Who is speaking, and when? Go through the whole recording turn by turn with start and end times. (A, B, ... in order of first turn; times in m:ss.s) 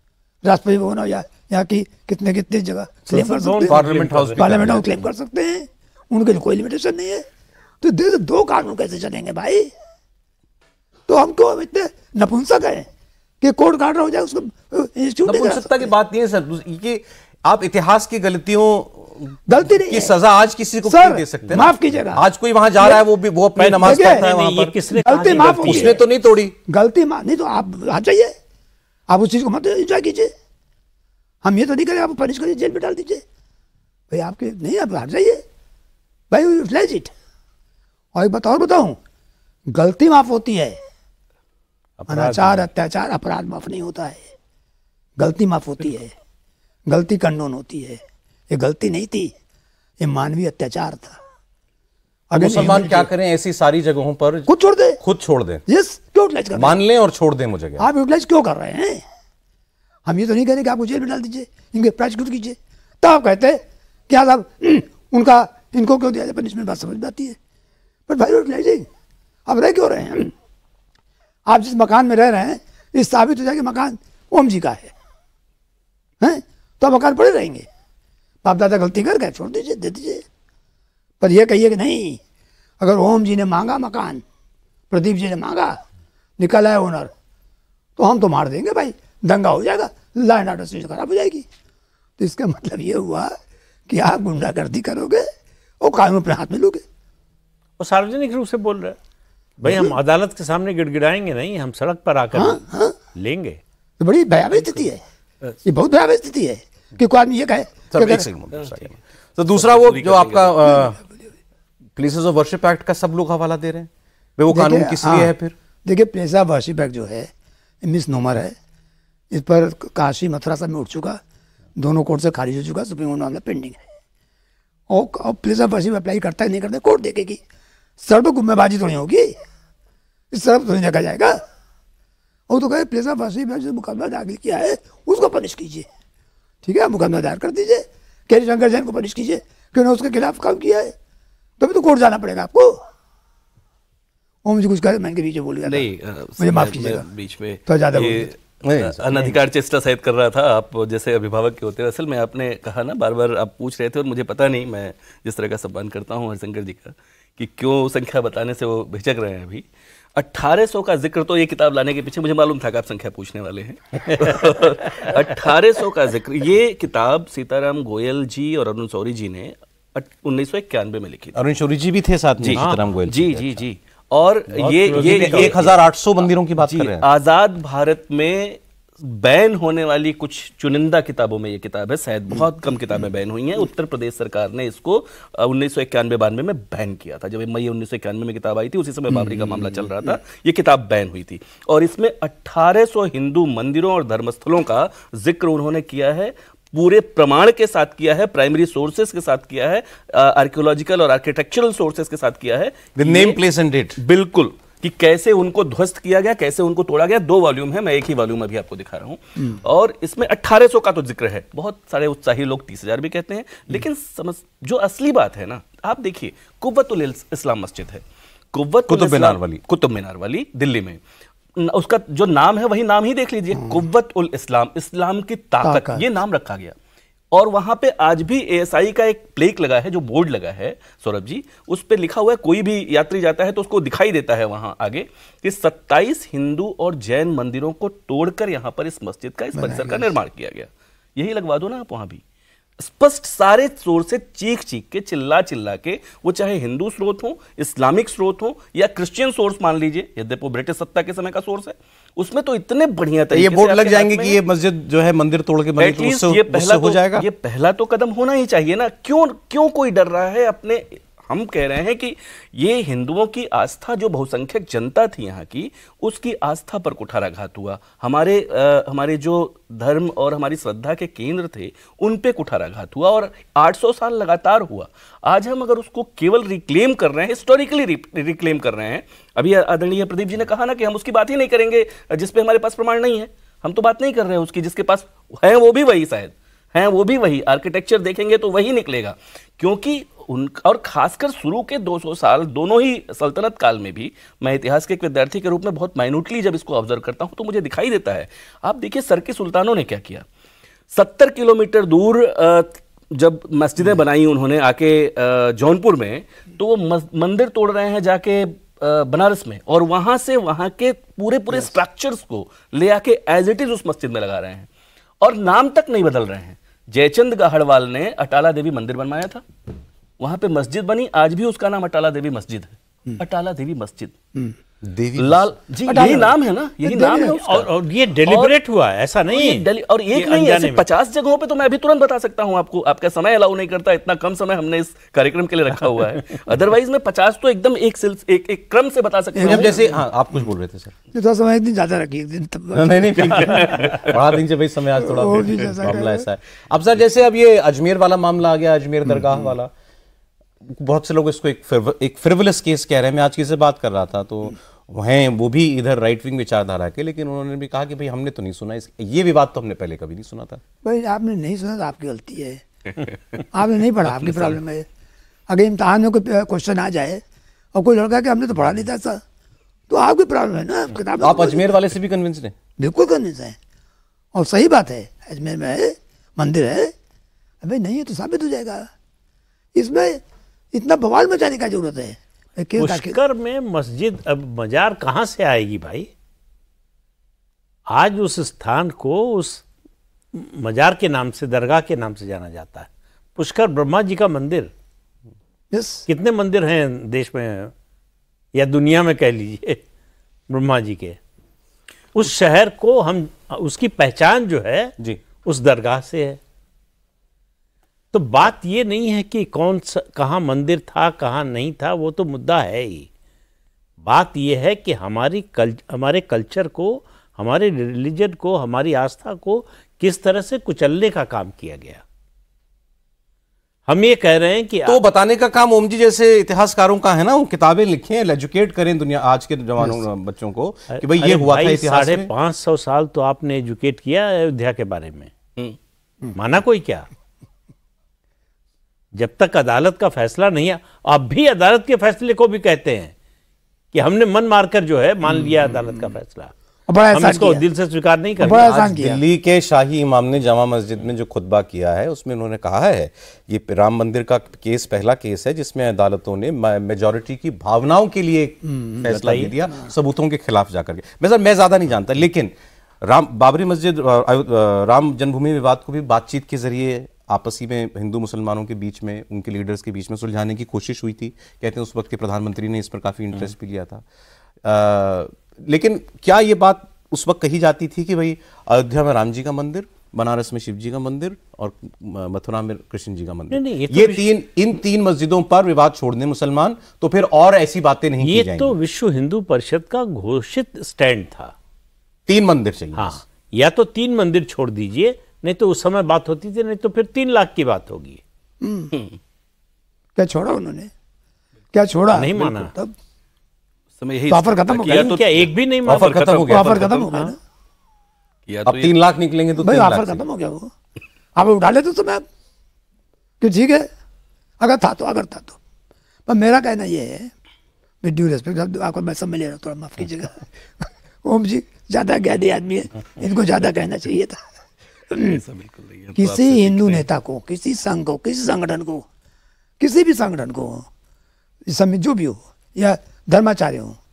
0:00.4-0:03.8 A
0:03.1-0:04.5 B
0:03.6-0:05.0 C
0:04.4-0:07.2 A
0:07.8-0:09.7 A
0:11.1-0:12.9 A
0:13.4-0:15.9 A
0:15.2-0:24.8 C
0:19.5-0:20.2 A
0:20.9-0:22.2 A
0:23.6-0:26.0 B
0:23.8-0:24.2 A
0:24.9-0:26.0 A
0:25.3-0:26.6 C
0:26.7-0:28.3 A
0:29.1-0:30.3 A
0:31.4-0:33.2 A
0:34.1-0:35.4 A
0:36.3-0:37.1 A
0:38.2-0:39.0 A
0:39.7-0:40.8 A
0:42.0-0:42.7 B
0:42.1-0:44.3 A
0:45.2-0:46.1 A
0:46.9-0:49.3 A
0:50.0-0:51.2 A
0:52.3-0:53.1 A
0:52.3-0:54.5 C
0:54.5-0:55.0 A
0:55.0-0:55.6 C
0:55.7-0:56.8 A
0:56.5-0:57.9 C
0:57.8-0:59.0 A
1:00.1-1:07.4 A
1:08.1-1:08.9 A
1:09.5-1:10.3 A
1:11.5-1:14.9 A
1:16.2-1:17.7 A
1:18.4-1:20.2 A
1:21.2-1:22.2 A
1:22.8-1:24.2 A
1:24.9-1:25.8 A
1:26.4-1:27.1 A
1:28.0-1:31.5 A
1:32.2-1:33.4 A
1:33.9-1:35.3 A
1:35.8-1:36.8 A
1:37.8-1:39.0 B
1:39.6-1:42.6 B
1:39.6-1:40.0 A
1:42.4-1:43.0 A
1:43.1-1:43.6 B
1:44.0-1:45.0 A
1:45.6-1:48.3 A
1:47.9-1:51.0 C
1:48.5-1:48.9 D
1:49.5-1:50.8 D
1:52.0-1:55.6 C
1:54.5-1:55.3 A
1:55.8-1:57.3 A
1:57.8-1:58.6 A
1:59.3-2:01.2 A
2:01.8-2:03.8 A
2:04.9-2:07.4 A
2:08.0-2:09.4 A
2:10.3-2:11.4 A
2:12.5-2:15.9 A
2:16.6-2:20.9 A
2:21.6-2:22.8 A
2:24.4-2:27.1 A
2:25.6-2:51.4 D
2:27.7-2:28.3 A
2:28.6-2:29.3 C
2:51.4-2:53.7 C
2:52.4-2:55.8 D
2:52.6-2:52.8 B
2:54.6-2:55.6 B
2:54.9-2:57.0 C
2:56.6-3:23.4 D
3:09.1-3:10.2 A
3:23.0-3:24.0 C
3:24.0-3:41.0 D
3:38.9-3:39.6 C
3:41.6-3:46.8 D
3:43.6-3:43.8 A
3:45.6-3:46.0 A
3:47.3-4:02.2 D
3:59.6-4:00.1 A
4:02.8-4:14.4 D
4:13.3-4:17.3 C
4:15.8-5:00.2 D
5:00.9-5:14.7 D
5:15.2-5:19.4 D
5:20.2-5:24.2 D
5:24.8-5:25.5 C
5:25.2-5:27.7 D
5:25.9-5:27.4 A
5:27.3-5:30.8 B
5:28.3-5:28.6 D
5:29.3-5:39.8 D
5:39.4-5:40.4 A
5:39.4-5:40.9 C
5:41.1-5:43.7 A
5:42.7-5:49.7 C
5:43.2-5:44.2 D
5:45.0-5:46.2 A
5:50.6-6:00.6 C
6:00.8-6:02.6 A
6:03.5-6:04.8 A
6:04.1-6:04.6 D
6:05.5-6:07.2 A
6:07.7-6:09.2 A
6:09.9-6:11.8 A
6:11.2-6:12.5 C
6:12.8-6:13.6 A
6:14.3-6:16.9 A
6:17.6-6:18.9 A
6:19.8-6:20.2 A
6:20.7-6:23.2 A
6:22.8-6:26.1 B
6:27.9-6:29.6 B
6:30.3-6:34.7 B
6:35.7-6:36.1 A
6:36.1-6:37.7 B
6:38.5-6:39.8 B
6:40.5-6:41.2 B
6:42.1-6:46.4 B
6:48.1-6:53.1 B
6:54.0-7:02.0 B
7:03.9-7:05.0 B
7:04.9-7:12.3 C
7:10.9-7:15.3 B
7:16.4-7:17.1 B
7:19.2-7:23.1 B
7:23.9-7:26.5 B
7:25.3-7:26.1 A
7:26.9-7:27.6 A
7:27.1-7:28.7 B
7:28.4-7:42.5 C
7:28.4-7:29.2 A
7:38.7-7:39.0 A
7:39.1-7:39.6 B
7:43.0-7:54.0 C
7:54.6-8:08.8 C
8:03.5-8:04.3 B
8:08.2-8:11.5 B
8:12.3-8:13.2 C
8:13.0-8:18.2 B
8:18.6-8:18.9 A
8:18.9-8:19.2 D
8:20.2-8:20.9 A
8:21.7-8:22.9 A
8:22.1-8:22.7 B
8:24.0-8:27.4 D
8:24.3-8:25.2 A
8:24.8-8:26.3 B
8:25.9-8:26.9 C
8:26.5-8:27.4 A
8:28.5-8:29.0 D
8:28.7-8:30.2 C
8:29.6-8:30.7 A
8:31.4-8:32.2 A
8:33.4-8:33.9 A
8:34.6-8:35.6 A
8:36.3-8:37.3 A
8:38.0-8:44.4 A
8:45.1-8:45.4 A
8:45.2-8:47.1 D
8:46.2-8:49.0 A
8:49.8-8:50.9 A
8:51.7-8:54.0 A